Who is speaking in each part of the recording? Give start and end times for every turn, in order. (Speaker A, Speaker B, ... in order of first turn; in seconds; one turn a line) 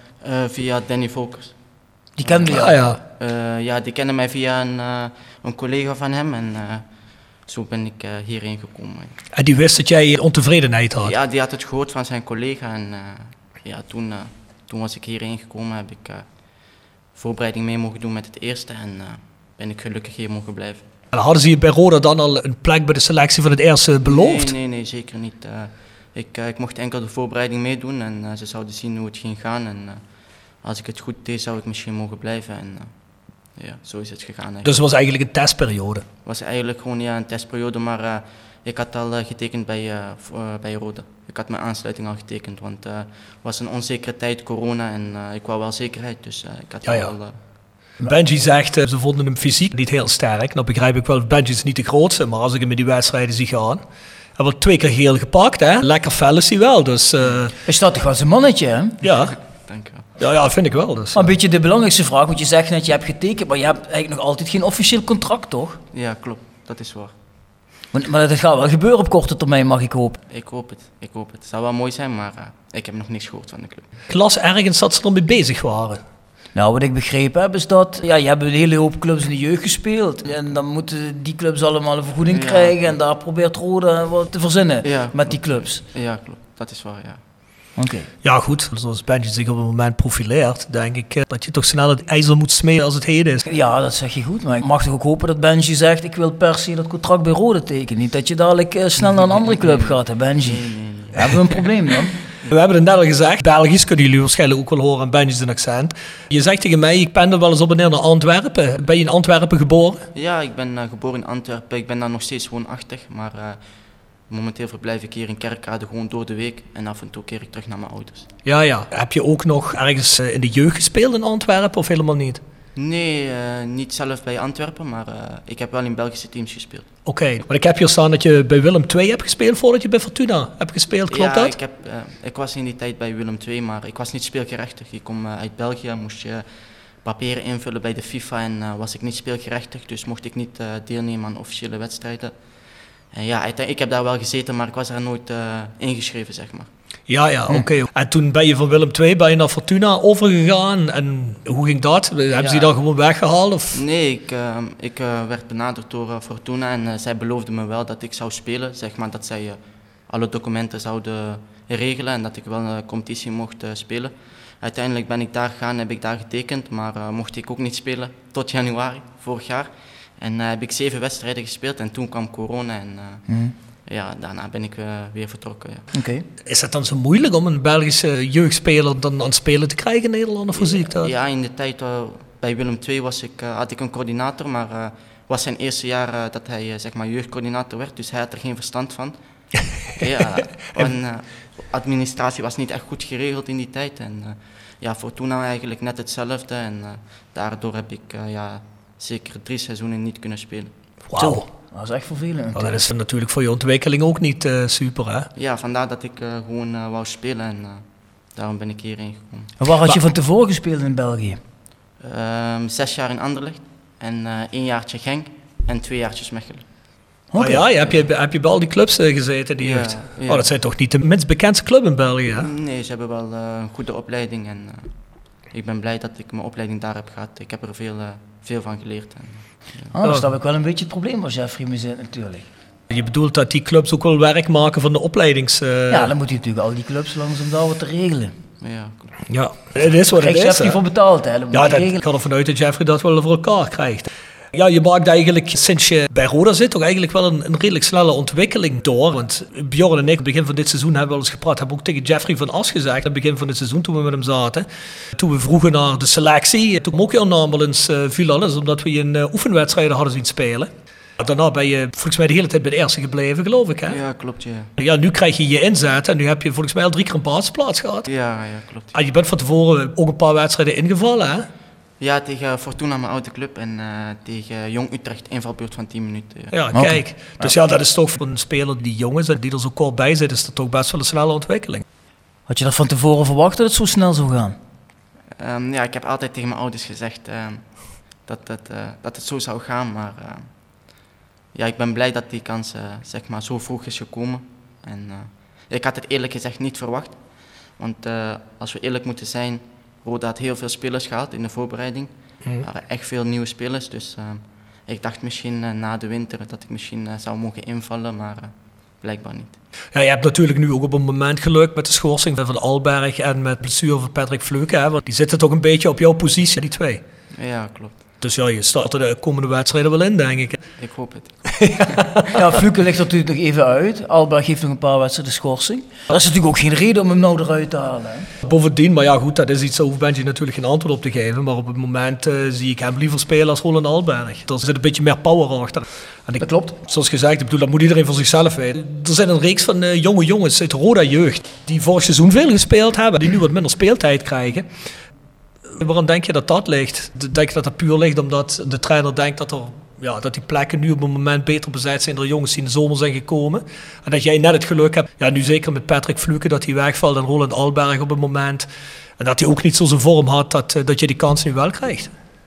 Speaker A: 0.2-9.2
Speaker B: 2.2-2.8
Speaker C: 2.5-3.0
Speaker C: 9.3-11.1
Speaker A: 11.0-20.9
Speaker C: 21.1-24.5
Speaker A: 24.1-34.7
Speaker C: 34.6-36.0
Speaker A: 36.2-47.3
Speaker C: 46.9-47.1
Speaker C: 48.0-53.8
Speaker C: 54.4-57.5
Speaker B: 57.7-59.0
Speaker C: 59.0-59.4
Speaker A: 59.7-60.1
Speaker C: 60.2-61.3
Speaker B: 61.1-65.8
Speaker A: 65.9-67.1
Speaker B: 67.9-70.2
Speaker A: 70.3-73.9
Speaker C: 74.1-76.0
Speaker B: 76.5-85.8
Speaker A: 82.3-82.9
Speaker A: 84.8-87.2
Speaker B: 87.8-88.1
Speaker C: 88.2-93.4
Speaker B: 93.5-102.2
Speaker A: 99.0-101.6
Speaker C: 102.5-110.0
Speaker A: 110.1-118.3
Speaker C: 118.5-122.4
Speaker A: 122.8-127.1
Speaker C: 127.1-131.5
Speaker A: 131.1-136.5
Speaker A: 137.0-146.7
Speaker C: 147.1-153.8
Speaker A: 153.7-173.3
Speaker B: 173.3-173.5
Speaker A: 173.9-175.9
Speaker B: 175.9-176.2
Speaker C: 176.5-181.1
Speaker A: 180.5-200.7
Speaker C: 201.1-201.5
Speaker B: 201.2-202.8
Speaker C: 202.6-205.3
Speaker A: 205.4-209.5
Speaker B: 209.6-211.4
Speaker A: 212.0-216.9
Speaker B: 217.3-217.7
Speaker C: 217.4-222.5
Speaker A: 219.6-220.5
Speaker A: 222.4-229.9
Speaker B: 229.9-232.5
Speaker C: 232.9-236.1
Speaker B: 235.9-238.3
Speaker A: 238.6-239.2
Speaker C: 239.3-240.8
Speaker B: 240.1-242.0
Speaker C: 241.5-264.0
Speaker A: 263.9-264.7
Speaker C: 264.8-268.1
Speaker A: 268.1-268.9
Speaker C: 268.9-271.5
Speaker A: 272.0-276.6
Speaker C: 276.5-281.8
Speaker B: 276.7-277.6
Speaker B: 282.5-284.6
Speaker A: 285.4-309.6
Speaker C: 309.9-317.0
Speaker A: 317.4-318.0
Speaker C: 318.2-320.6
Speaker A: 320.8-322.0
Speaker C: 321.6-322.2
Speaker B: 322.3-328.3
Speaker C: 328.4-344.7
Speaker B: 336.4-336.8
Speaker C: 345.8-358.7
Speaker C: 359.2-362.1